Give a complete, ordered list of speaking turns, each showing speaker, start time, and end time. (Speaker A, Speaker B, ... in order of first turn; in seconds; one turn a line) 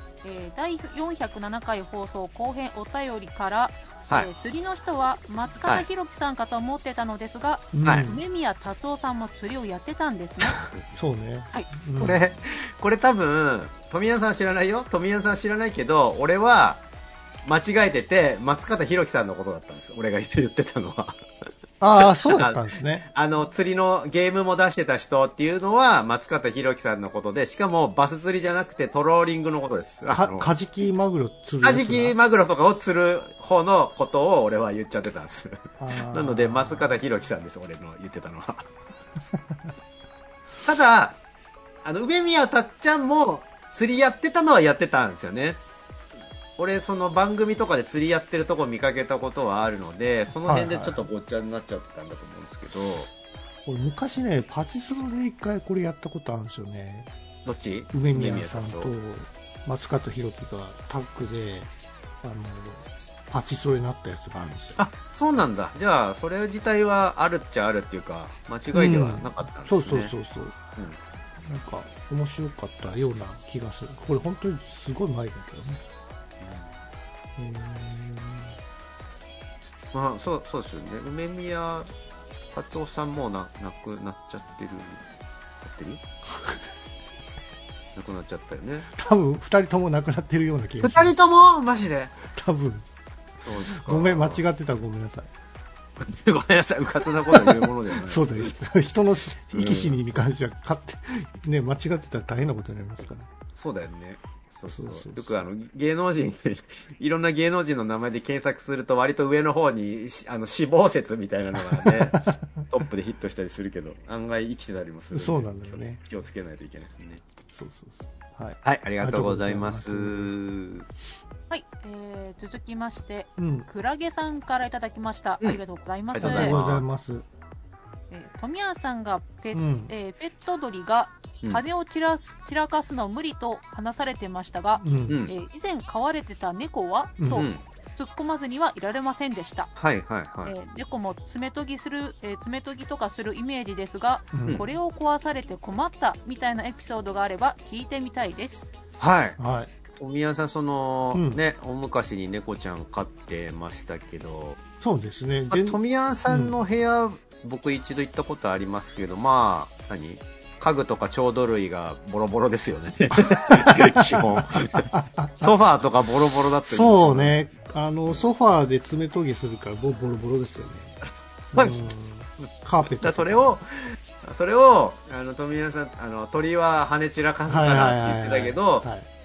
Speaker A: 0.2-10.6
Speaker B: 7.7-8.2
Speaker B: 10.9-12.2
Speaker C: 12.0-16.8
Speaker C: 17.4-21.2
Speaker B: 21.8-23.1
Speaker C: 22.0-30.5
Speaker B: 30.1-32.1
Speaker C: 31.6-38.7
Speaker B: 35.8-37.0
Speaker C: 40.6-41.2
Speaker C: 41.8-45.6
Speaker C: 46.6-53.1
Speaker B: 50.4-51.1
Speaker B: 53.6-57.1
Speaker C: 57.5-58.9
Speaker B: 57.9-61.7
Speaker B: 62.2-64.8
Speaker C: 64.8-70.1
Speaker B: 68.7-70.6
Speaker B: 71.4-75.8
Speaker C: 76.4-76.8
Speaker B: 77.4-78.6
Speaker C: 79.9-81.9
Speaker C: 82.5-85.0
Speaker C: 85.6-86.0
Speaker C: 87.9-88.9
Speaker B: 88.9-91.2
Speaker C: 90.8-92.1
Speaker B: 92.3-92.8
Speaker C: 93.4-94.4
Speaker B: 93.7-95.3
Speaker C: 96.0-98.5
Speaker B: 97.2-103.3
Speaker C: 99.5-99.9
Speaker C: 103.5-117.2
Speaker B: 104.7-105.4
Speaker B: 111.7-112.3
Speaker B: 115.1-116.0
Speaker B: 117.5-120.3
Speaker C: 118.6-120.9
Speaker A: 121.5-126.5
Speaker B: 123.4-123.7
Speaker C: 126.1-126.9
Speaker B: 126.2-127.2
Speaker A: 128.1-139.7
Speaker B: 129.5-129.9
Speaker B: 134.8-135.2
Speaker C: 135.1-135.3
Speaker B: 137.2-137.5
Speaker C: 137.3-137.6
Speaker C: 139.8-140.5
Speaker A: 140.4-148.7
Speaker B: 144.3-144.6
Speaker C: 149.0-149.4
Speaker B: 149.4-149.7
Speaker C: 150.0-154.6
Speaker B: 151.1-151.4
Speaker B: 154.8-156.6
Speaker C: 155.5-167.4
Speaker B: 163.2-165.5
Speaker B: 166.6-171.0
Speaker C: 171.5-171.9
Speaker B: 171.5-173.6
Speaker C: 172.4-178.9
Speaker B: 177.5-179.1